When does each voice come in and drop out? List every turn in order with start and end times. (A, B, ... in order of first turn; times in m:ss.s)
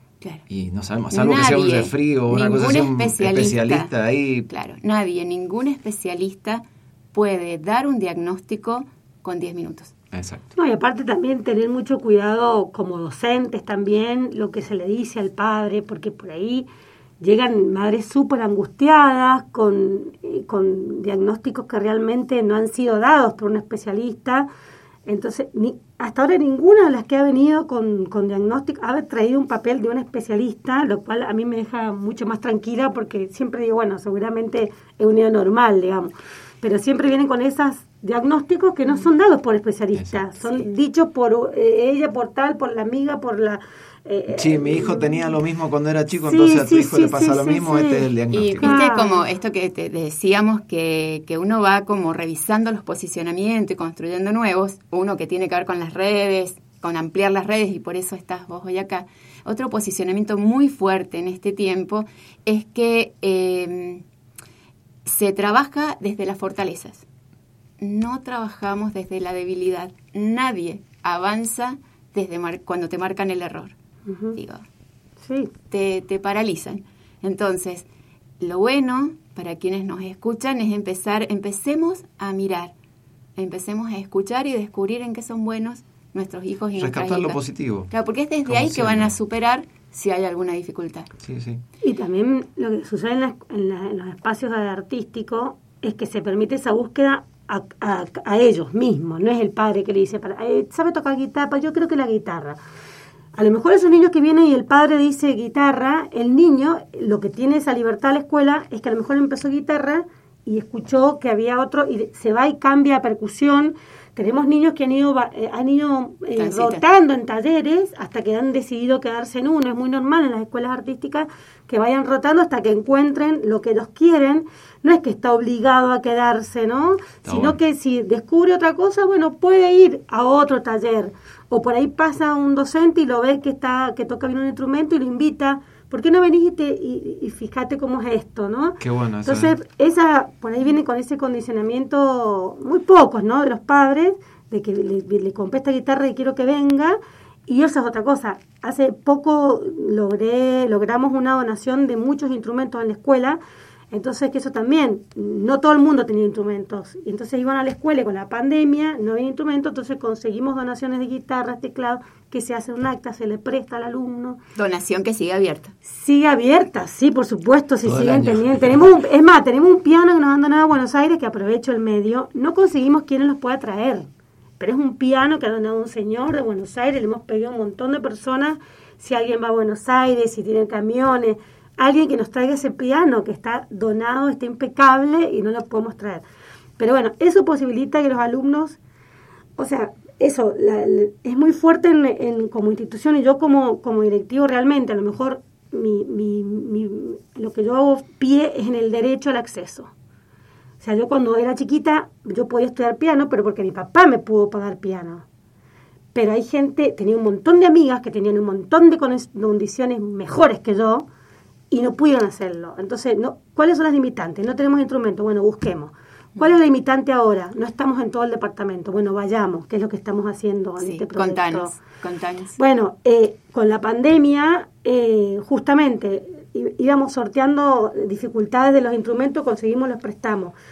0:00.5-0:04.5 A
0:01.1-0:03.9 B
0:04.5-0:09.9 B
0:10.1-0:10.4 A
0:10.5-0:16.7 C
0:17.2-0:24.5 C
0:25.0-0:45.3 C
0:44.3-0:48.8 A
0:46.2-0:48.1 C
0:48.3-1:04.0 B
0:48.6-0:49.2 C
1:05.0-1:07.0 B
1:07.8-1:13.7 B
1:14.1-1:14.4 C
1:14.4-1:14.6 B
1:15.2-1:15.5 C
1:15.7-1:17.9 B
1:18.4-1:22.7 B
1:23.4-1:27.4 B
1:26.8-1:27.9 A
1:27.9-1:31.1 B
1:28.4-1:29.1 A
1:31.2-1:31.6 A
1:31.8-1:42.6 C
1:43.4-2:33.4 C
1:56.4-1:56.8 B
2:07.2-2:07.6 A
2:18.8-2:19.5 A
2:33.9-2:44.4 C
2:44.5-2:45.7 B
2:45.8-2:54.1 C
2:47.8-2:48.8 A
2:54.6-3:06.2 C
3:06.8-3:08.8 C
3:09.6-3:19.9 C
3:20.8-3:25.2 C
3:26.1-3:31.1 C
3:31.7-3:41.8 C
3:40.8-3:42.6 B
3:42.6-3:50.5 C